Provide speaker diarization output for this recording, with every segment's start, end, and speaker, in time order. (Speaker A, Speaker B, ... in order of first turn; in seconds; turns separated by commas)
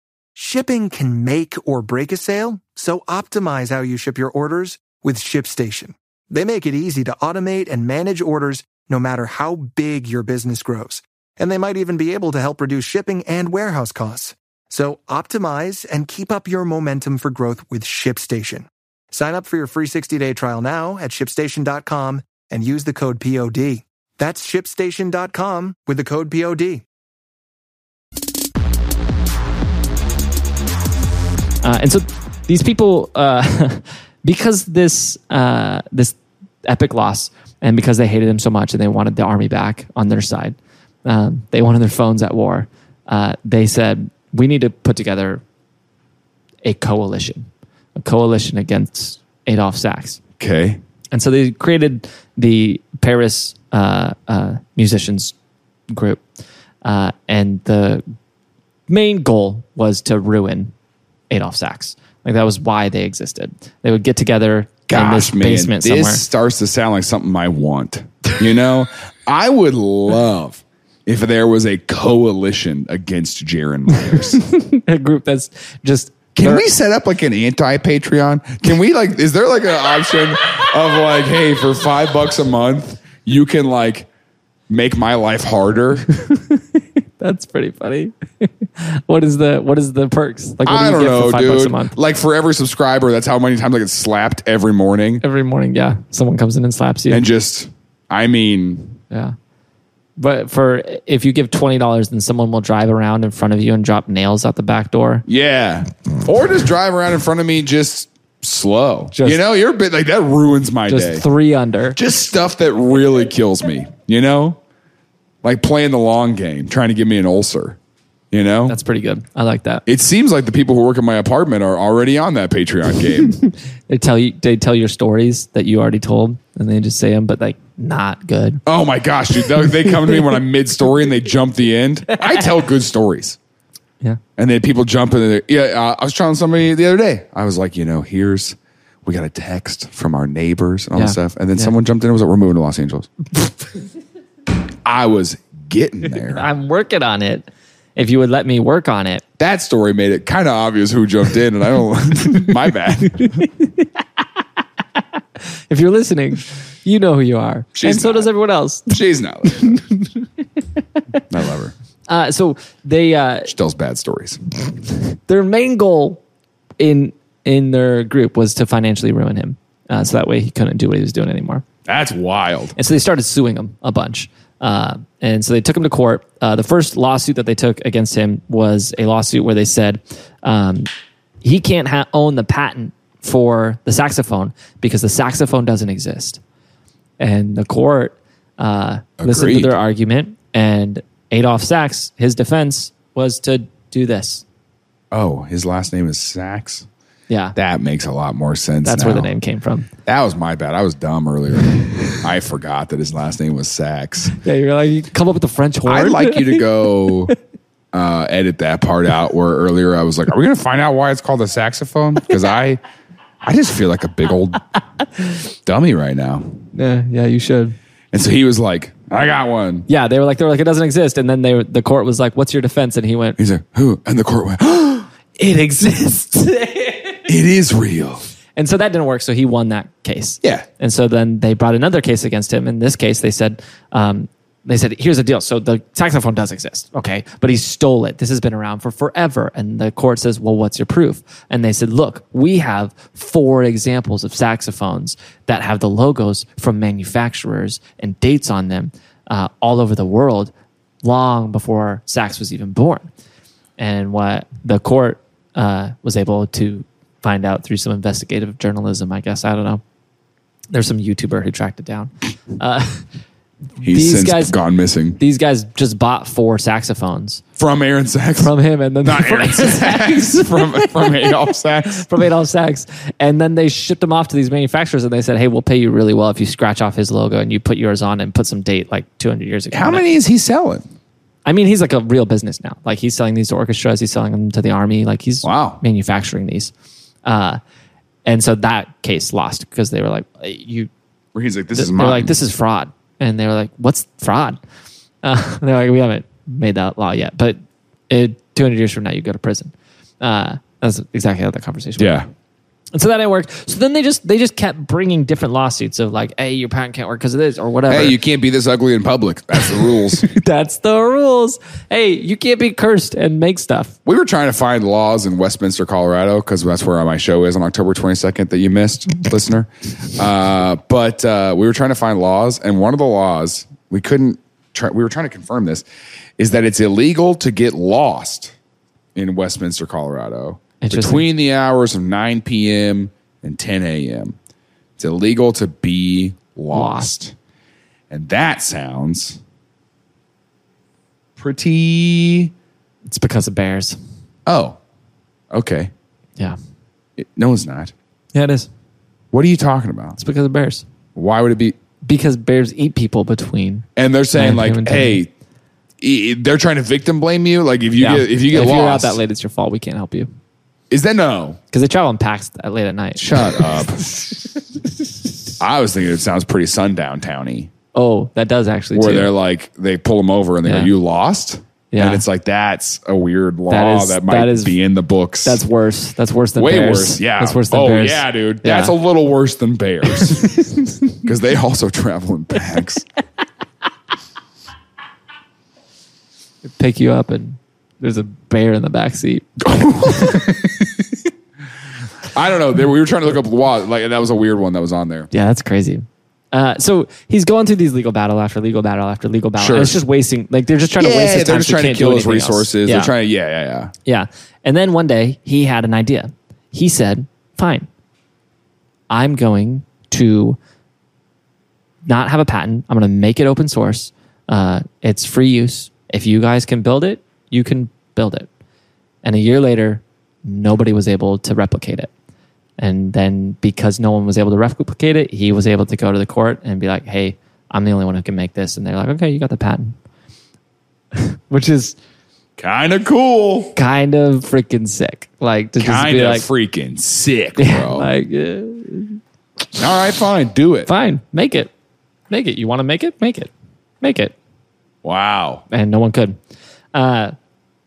Speaker A: 0.3-26.8, Speaker B: 31.6-45.4, Speaker B: 46.6-50.2, Speaker C: 50.4-50.8, Speaker B: 51.1-55.3, Speaker B: 55.9-56.2, Speaker B: 56.8-58.0, Speaker B: 58.9-60.7, Speaker B: 61.3-66.2, Speaker C: 64.9-74.4, Speaker B: 74.1-76.7, Speaker C: 76.3-84.1, Speaker C: 84.7-86.1, Speaker B: 86.2-91.9, Speaker C: 90.6-95.2, Speaker B: 95.2-97.2, Speaker C: 97.1-99.0, Speaker B: 100.2-105.2, Speaker C: 105.2-111.2, Speaker B: 109.1-109.4, Speaker B: 110.9-112.0, Speaker C: 111.9-114.6, Speaker C: 115.4-117.8, Speaker C: 118.3-118.8, Speaker B: 118.7-119.8, Speaker C: 119.8-123.4, Speaker B: 123.3-128.6, Speaker C: 128.7-133.4, Speaker B: 129.5-130.4, Speaker B: 132.1-132.5, Speaker C: 134.4-143.1, Speaker B: 140.9-141.7, Speaker C: 144.8-146.5, Speaker B: 146.2-149.2, Speaker C: 149.4-153.4, Speaker B: 153.4-153.9, Speaker B: 155.0-158.9, Speaker C: 157.7-158.3, Speaker C: 158.9-159.8, Speaker B: 159.4-160.6, Speaker C: 161.3-161.7, Speaker B: 162.1-163.5, Speaker C: 163.4-164.4, Speaker B: 165.0-166.2, Speaker B: 166.8-171.6, Speaker C: 171.9-172.7, Speaker B: 172.8-180.9, Speaker B: 181.4-186.4, Speaker B: 187.2-194.4, Speaker C: 189.2-189.8, Speaker C: 195.1-196.8, Speaker B: 197.3-197.6, Speaker C: 197.5-199.3, Speaker B: 198.8-199.9, Speaker C: 200.1-204.3, Speaker B: 204.4-207.3, Speaker C: 205.8-207.3, Speaker C: 207.9-212.8, Speaker C: 213.4-214.6, Speaker C: 215.6-216.6, Speaker B: 216.7-217.8, Speaker C: 218.1-219.9, Speaker B: 219.9-223.4, Speaker C: 223.4-225.1, Speaker B: 225.4-227.3, Speaker C: 227.2-228.2, Speaker B: 228.6-250.5, Speaker B: 251.0-253.1, Speaker B: 253.8-259.8, Speaker B: 260.7-263.0, Speaker C: 263.8-265.2, Speaker B: 263.9-264.5, Speaker B: 265.2-267.4, Speaker C: 267.6-268.5, Speaker B: 268.4-280.0, Speaker C: 269.0-272.1, Speaker C: 279.7-280.9, Speaker B: 281.4-286.7, Speaker C: 285.4-285.8, Speaker B: 287.2-287.6, Speaker B: 288.2-290.9, Speaker C: 291.3-292.3, Speaker B: 291.7-294.6, Speaker B: 295.2-302.2, Speaker C: 302.0-302.3, Speaker B: 302.9-308.2, Speaker C: 307.9-310.2, Speaker B: 309.5-313.9, Speaker C: 314.0-325.8, Speaker C: 326.4-328.5, Speaker C: 329.1-334.4, Speaker B: 330.8-331.2, Speaker C: 335.0-337.3, Speaker B: 336.7-337.1, Speaker C: 338.1-339.4, Speaker C: 341.4-342.5, Speaker B: 343.1-344.0, Speaker C: 344.4-344.8, Speaker C: 345.5-345.9, Speaker C: 347.2-347.9, Speaker B: 348.3-348.7, Speaker C: 349.3-350.2, Speaker B: 350.2-350.8, Speaker C: 351.1-351.8, Speaker B: 352.0-355.2, Speaker C: 353.9-355.3, Speaker C: 356.0-359.2, Speaker B: 358.0-360.3, Speaker C: 360.9-361.6, Speaker B: 361.7-364.2, Speaker C: 363.1-364.2, Speaker C: 365.6-367.7, Speaker B: 367.9-369.3, Speaker C: 368.9-375.6, Speaker B: 370.6-370.9, Speaker B: 371.9-372.2, Speaker B: 373.7-374.8, Speaker B: 375.4-378.9, Speaker C: 376.6-380.6, Speaker B: 380.1-380.9, Speaker C: 381.2-383.0, Speaker B: 386.6-390.5, Speaker C: 389.7-390.6, Speaker C: 392.3-395.3, Speaker B: 395.3-403.1, Speaker C: 399.6-400.0, Speaker C: 401.0-403.9, Speaker B: 404.0-407.9, Speaker B: 409.1-410.6, Speaker B: 412.1-418.5, Speaker B: 419.2-422.1, Speaker B: 422.8-429.9, Speaker B: 431.1-432.0, Speaker C: 432.6-433.8, Speaker B: 433.7-436.4, Speaker C: 435.8-438.1, Speaker B: 437.6-439.2, Speaker C: 439.8-440.9, Speaker B: 440.9-441.7, Speaker B: 442.3-444.3, Speaker C: 445.0-445.6, Speaker B: 445.7-446.4, Speaker B: 446.9-447.3